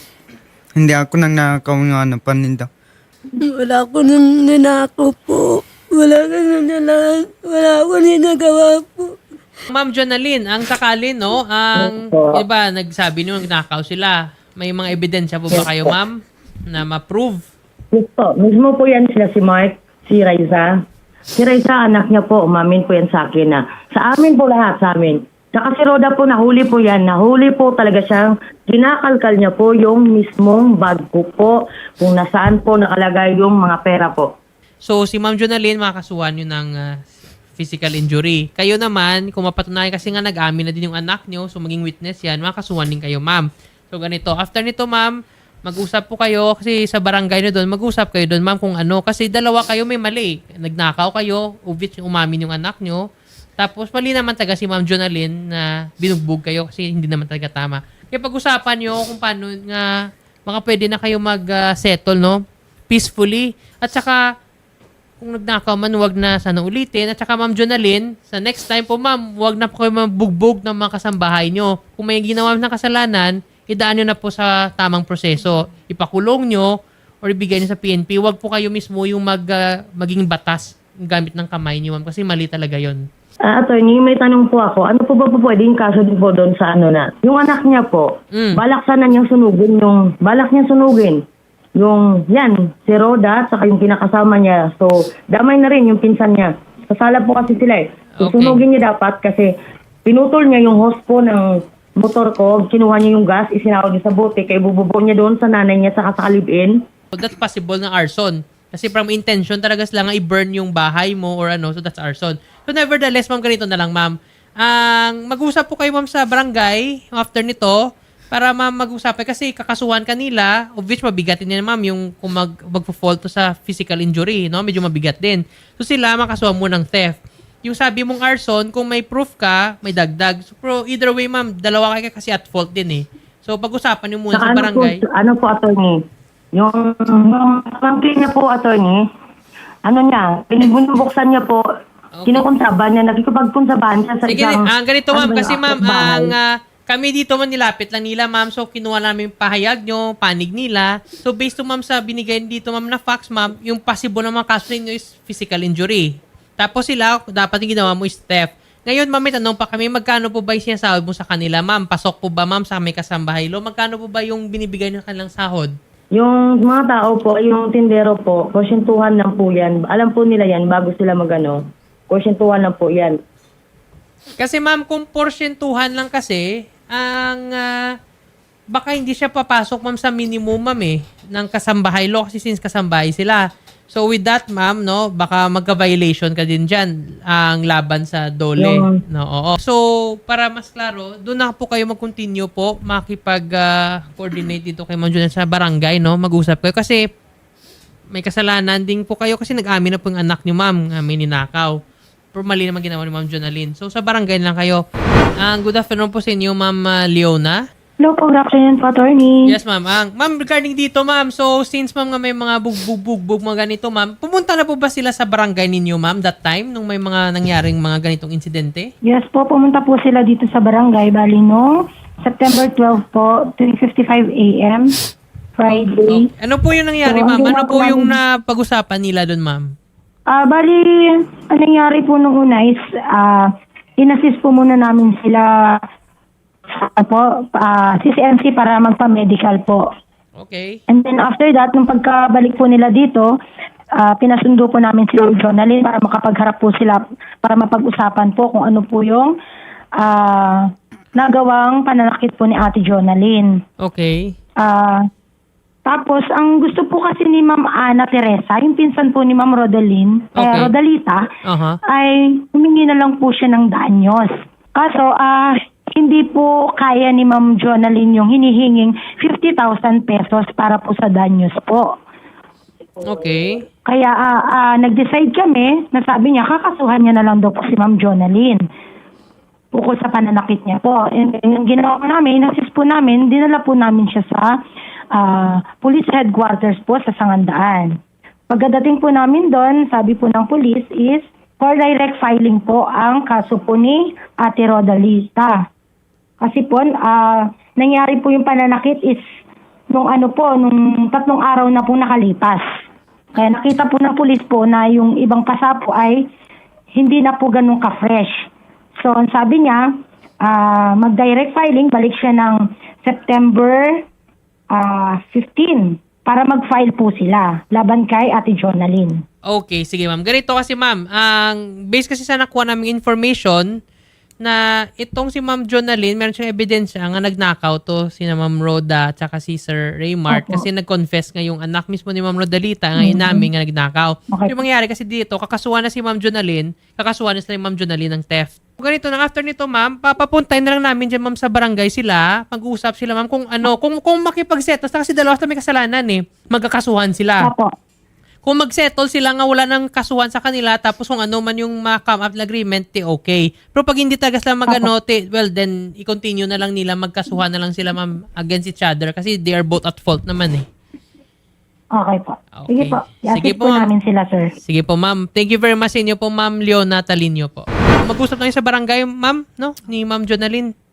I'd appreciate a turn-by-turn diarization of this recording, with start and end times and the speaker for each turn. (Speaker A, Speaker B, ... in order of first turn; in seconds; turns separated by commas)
Speaker A: 0.7-2.7, Speaker B: 3.4-9.1, Speaker C: 9.7-17.4, Speaker D: 11.8-12.4, Speaker D: 15.5-15.9, Speaker D: 17.9-20.7, Speaker D: 21.4-34.3, Speaker C: 34.8-45.1, Speaker C: 45.6-53.0, Speaker C: 53.6-59.9, Speaker C: 60.5-64.2, Speaker C: 65.2-76.7, Speaker C: 77.2-83.0, Speaker D: 83.5-91.2, Speaker C: 88.3-88.6, Speaker D: 91.8-99.5, Speaker C: 98.2-98.6, Speaker D: 100.0-106.7, Speaker C: 107.1-117.8, Speaker C: 118.3-135.0, Speaker D: 134.3-136.0, Speaker D: 136.5-139.0, Speaker D: 139.8-141.6, Speaker C: 142.1-142.4, Speaker D: 142.2-146.3, Speaker C: 144.2-165.7, Speaker D: 166.1-173.2, Speaker C: 174.4-177.8, Speaker C: 178.7-197.0, Speaker D: 188.6-188.9, Speaker C: 198.1-201.8, Speaker C: 202.3-204.8, Speaker C: 205.4-207.6, Speaker E: 208.0-209.4, Speaker C: 209.4-218.9, Speaker E: 219.0-221.7, Speaker E: 222.2-224.9, Speaker E: 225.6-226.3, Speaker C: 226.1-229.7, Speaker E: 227.0-228.1, Speaker E: 230.3-233.5, Speaker E: 234.0-235.5, Speaker E: 236.7-239.8, Speaker C: 240.4-240.8, Speaker E: 240.9-243.3, Speaker E: 244.0-249.3, Speaker E: 250.0-250.6, Speaker E: 251.1-253.6, Speaker C: 253.8-254.3, Speaker E: 254.6-255.0, Speaker E: 255.8-261.2, Speaker C: 260.4-260.7, Speaker C: 261.4-261.8, Speaker E: 261.9-271.9, Speaker C: 273.0-273.6, Speaker E: 273.9-278.6, Speaker E: 279.7-284.5, Speaker E: 285.1-287.9, Speaker E: 288.5-295.6, Speaker E: 296.4-299.2, Speaker E: 299.9-302.6, Speaker E: 303.4-306.2, Speaker E: 306.9-308.4, Speaker E: 309.0-309.9, Speaker E: 310.4-314.0, Speaker E: 314.7-319.2, Speaker C: 319.5-323.7, Speaker C: 324.4-347.5, Speaker E: 333.0-333.4, Speaker C: 348.4-360.6, Speaker E: 361.9-364.5, Speaker C: 362.5-363.9, Speaker C: 364.6-370.7